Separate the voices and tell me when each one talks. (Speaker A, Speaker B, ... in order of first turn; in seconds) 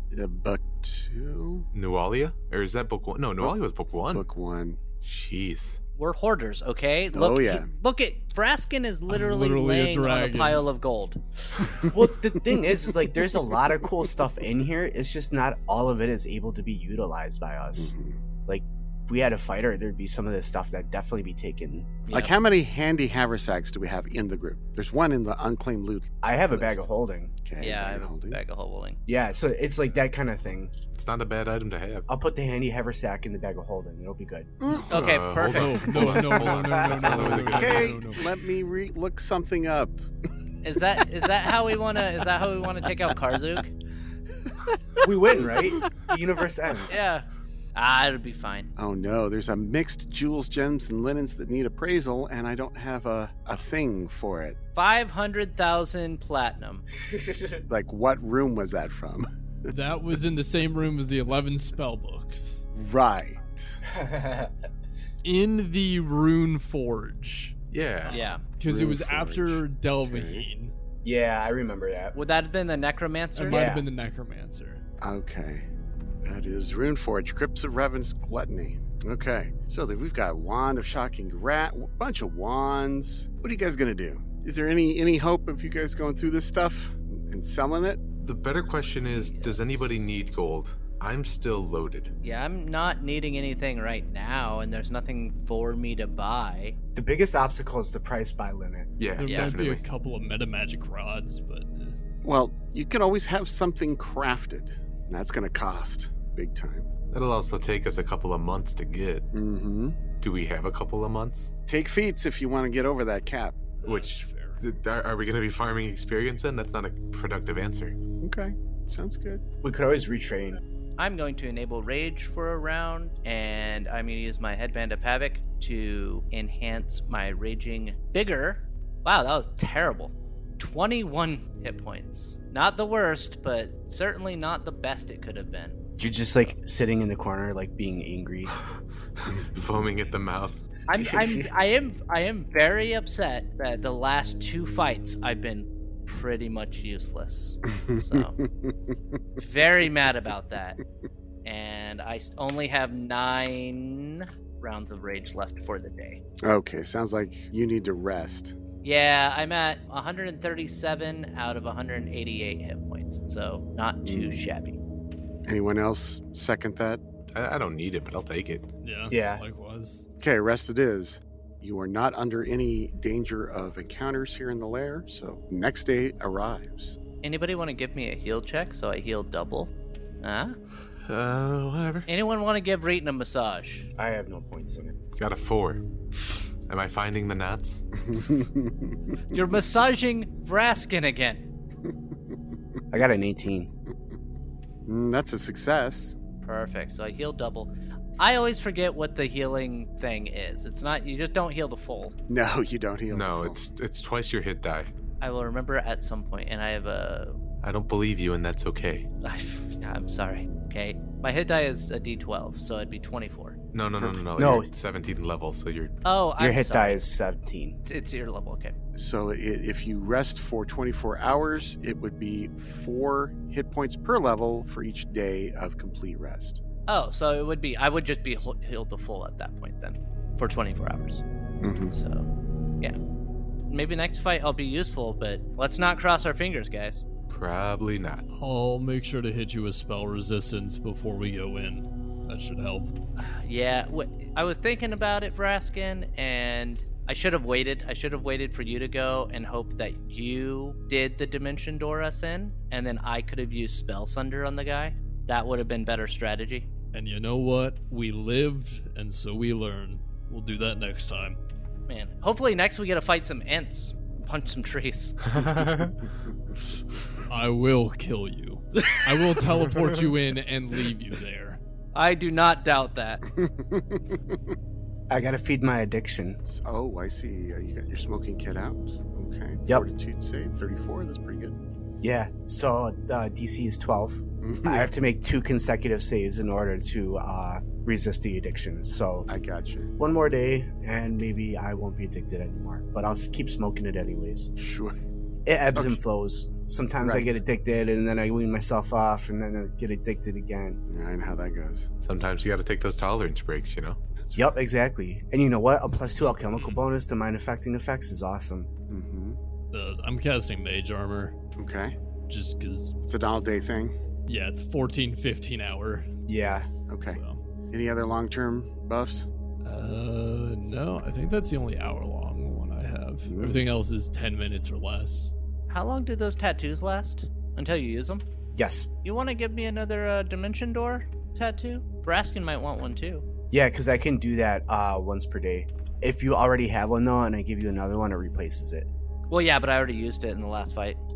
Speaker A: 0.1-1.7, 4.1-4.8, 7.1-7.7, 17.8-18.2, 22.1-26.8, 27.4-28.4, 34.6-34.9, 37.2-40.0, 48.8-54.6, 57.7-59.7, 62.7-63.8, 68.7-70.5, 75.0-75.7, 76.2-88.0, 102.2-106.9, 109.3-110.0, 111.7-113.6, 118.2-119.4, 147.7-148.8, 156.4-158.6, 164.0-164.4, 165.4-167.0, 170.2-177.0, 188.0-188.9, 194.8-196.2, 202.3-203.6, 218.9-226.6, 231.6-231.9, 273.3-274.4, 276.4-281.6, 284.4-284.9, 289.3-289.9, 294.6-295.0, 297.0-297.3, 300.9-301.9, 304.2-304.5, 308.9-309.4, 311.6-312.0, 313.0-313.9, 316.9-319.3, 323.2-323.7
Speaker B: 1.7-4.2, 5.0-5.8, 30.9-32.1, 34.9-38.1, 67.7-68.2, 88.2-92.1, 99.0-99.8, 107.1-109.3, 110.2-111.5, 113.8-118.0, 138.7-140.6, 167.3-168.7, 181.1-182.1, 185.2-185.8, 186.7-187.9, 203.1-204.9, 207.6-209.1, 213.7-216.0, 237.3-238.2, 265.3-265.9, 302.0-304.0
Speaker C: 6.0-11.2, 22.1-22.3, 27.6-29.0, 34.9-36.3, 40.6-43.7, 46.9-48.7, 54.7-56.8, 68.1-68.4, 72.1-73.8, 89.1-90.1, 92.2-96.8, 99.2-99.5, 121.0-135.8, 140.9-148.4, 149.4-150.8, 151.4-156.2, 158.8-164.8, 177.2-180.6, 182.1-183.9, 189.3-191.4, 196.4-202.1, 205.2-207.4, 209.2-213.6, 216.0-217.1, 217.8-218.7, 226.9-231.2, 231.9-232.3, 233.7-237.0, 243.2-256.7, 261.9-265.4, 271.9-273.2, 325.7-328.2, 329.0-333.2, 339.3-341.0
Speaker D: 9.1-10.7, 35.5-38.3, 59.7-62.6, 65.2-70.7, 73.3-74.8, 99.2-102.0, 113.8-114.6, 168.8-170.1, 238.3-242.9, 256.9-261.4, 267.3-271.6, 309.7-311.3, 312.3-312.9, 314.3-316.1, 317.0-317.4, 319.6-325.3
Speaker E: 11.9-17.9, 18.5-21.9, 26.2-27.3, 29.1-30.7, 32.1-34.5, 36.6-37.4, 45.0-47.0, 57.1-57.6, 63.9-64.5, 71.0-72.1, 73.5-73.8, 96.9-98.9, 119.6-120.6, 136.0-138.6, 140.9-141.5, 169.1-169.4, 183.9-184.9, 192.9-193.7, 214.0-214.7, 216.4-217.8, 275.1-276.4, 282.0-289.3, 290.0-294.5, 295.4-300.8, 304.3-308.7, 316.3-316.7, 328.5-328.9, 333.5-338.9